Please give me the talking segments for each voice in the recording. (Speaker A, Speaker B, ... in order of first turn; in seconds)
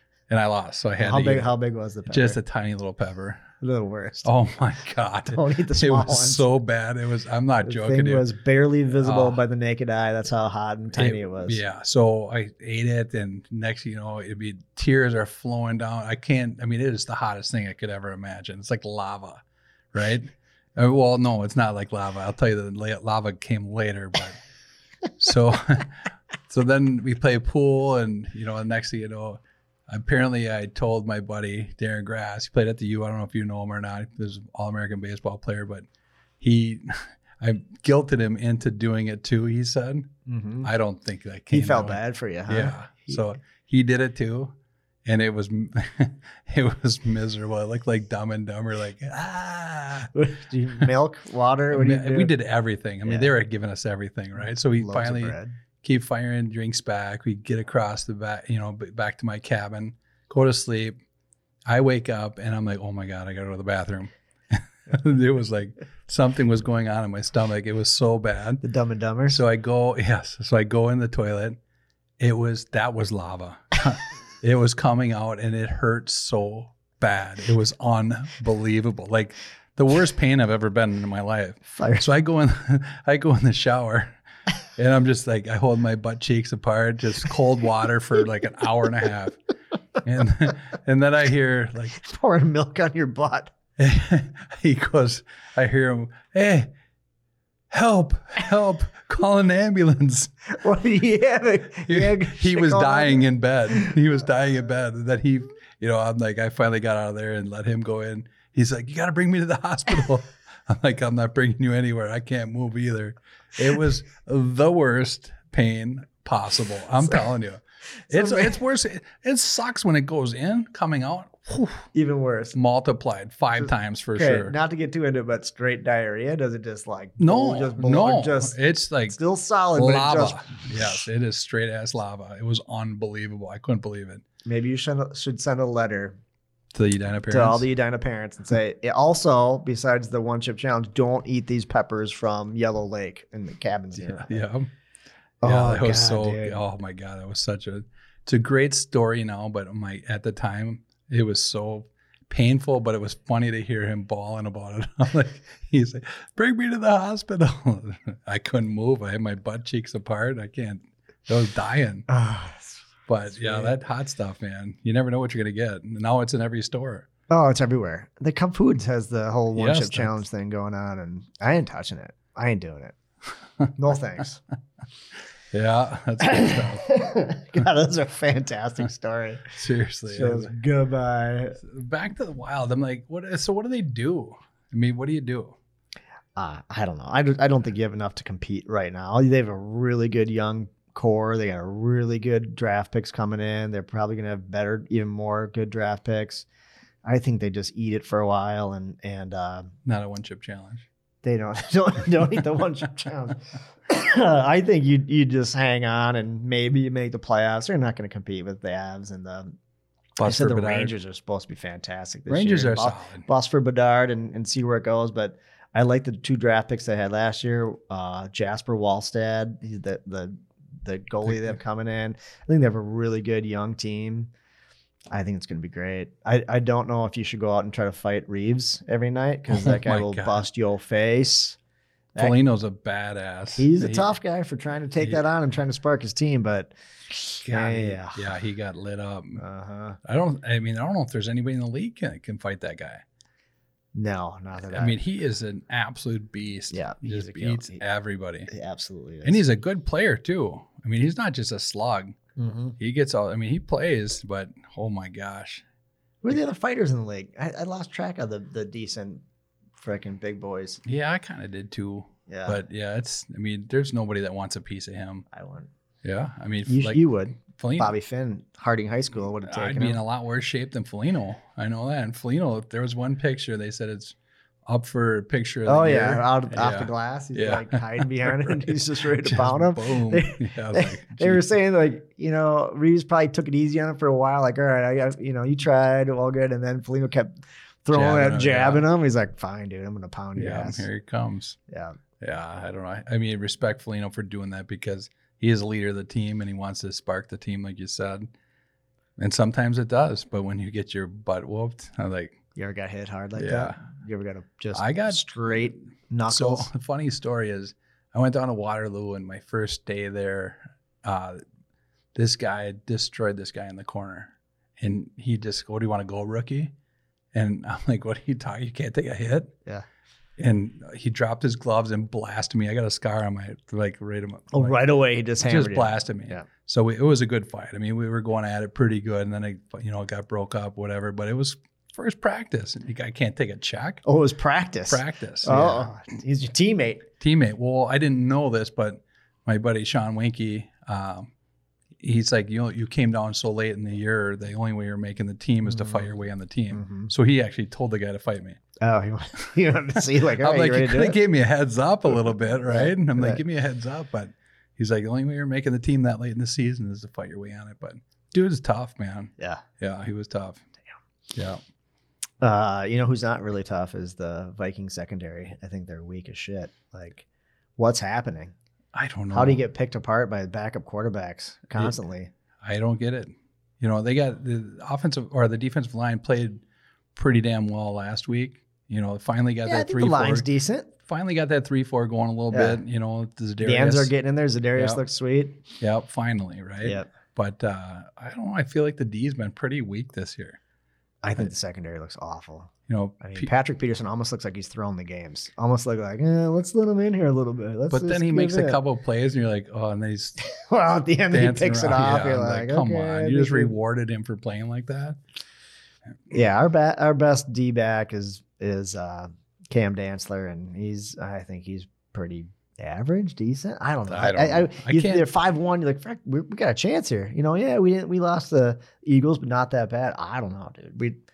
Speaker A: 0.3-1.5, 2.1-3.4, 4.2-8.2, 8.9-9.4, 10.9-19.4, 19.9-24.4, 25.2-25.9, 26.5-35.8, 36.4-40.1, 40.6-50.1, 51.7-60.9, 61.7-68.6, 69.3-71.6, 72.2-84.2, 84.8-89.4, 90.0-92.0, 93.8-96.7, 97.7-100.3, 101.9-121.8, 122.5-124.5, 127.2-129.2, 129.7-134.2, 136.7-137.6, 144.0-144.7, 145.4-162.1, 163.1-167.1, 169.5-170.2, 175.5-176.9, 179.5-180.5, 181.6-185.6, 199.8-200.9, 210.2-210.9, 212.3-213.2, 221.2-221.5, 229.5-230.4, 232.2-234.1, 237.4-239.4, 240.0-243.0, 244.7-248.5, 249.2-252.2, 252.8-255.6, 260.8-265.2, 266.0-267.9, 269.4-274.1, 274.7-281.4, 287.9-288.9, 290.4-291.6, 292.2-298.3, 299.2-302.4, 303.4-303.8, 304.7-305.2, 306.3-311.4, 312.1-316.7, 317.3-319.5, 320.4-324.8, 325.4-334.0, 334.9-335.9, 337.2-341.3, 342.0-348.6, 349.9-360.6, 361.3-361.6, 368.9-369.6, 372.6-376.6, 377.1-380.5, 381.1-384.1, 384.8-385.0, 385.8-390.6, 392.9-393.5, 397.9-400.4, 401.3-405.2, 414.1-415.3
Speaker B: 1.0-2.4, 3.6-4.3, 5.2-6.4, 7.6-11.6, 40.2-40.7, 41.5-43.2, 50.1-52.3, 53.0-53.3, 54.4-55.5, 68.6-69.4, 81.7-82.1, 92.0-93.5, 100.6-103.3, 118.1-118.5, 121.9-122.5, 123.6-128.5, 129.1-130.7, 134.4-136.2, 137.3-144.4, 145.4-146.6, 162.1-163.8, 167.3-172.9, 173.7-174.4, 176.2-179.5, 180.1-181.6, 186.3-196.4, 197.0-199.7, 201.2-209.5, 210.2-224.3, 225.1-231.6, 233.6-238.3, 239.4-240.0, 243.9-245.0, 246.7-247.8, 248.5-249.4, 252.4-252.8, 256.2-259.2, 259.8-260.8, 262.3-262.6, 265.3-265.7, 266.7-270.0, 275.6-290.9, 291.7-292.0, 302.6-306.7, 324.5-326.5, 334.0-337.1, 345.7-346.1, 346.7-347.1, 348.8-351.2, 352.6-353.4, 362.4-367.2, 367.8-368.5, 369.3-372.3, 379.6-380.9, 382.5-382.8, 383.6-385.6, 386.8-387.1, 391.2-398.8, 400.4-403.7, 406.3-421.2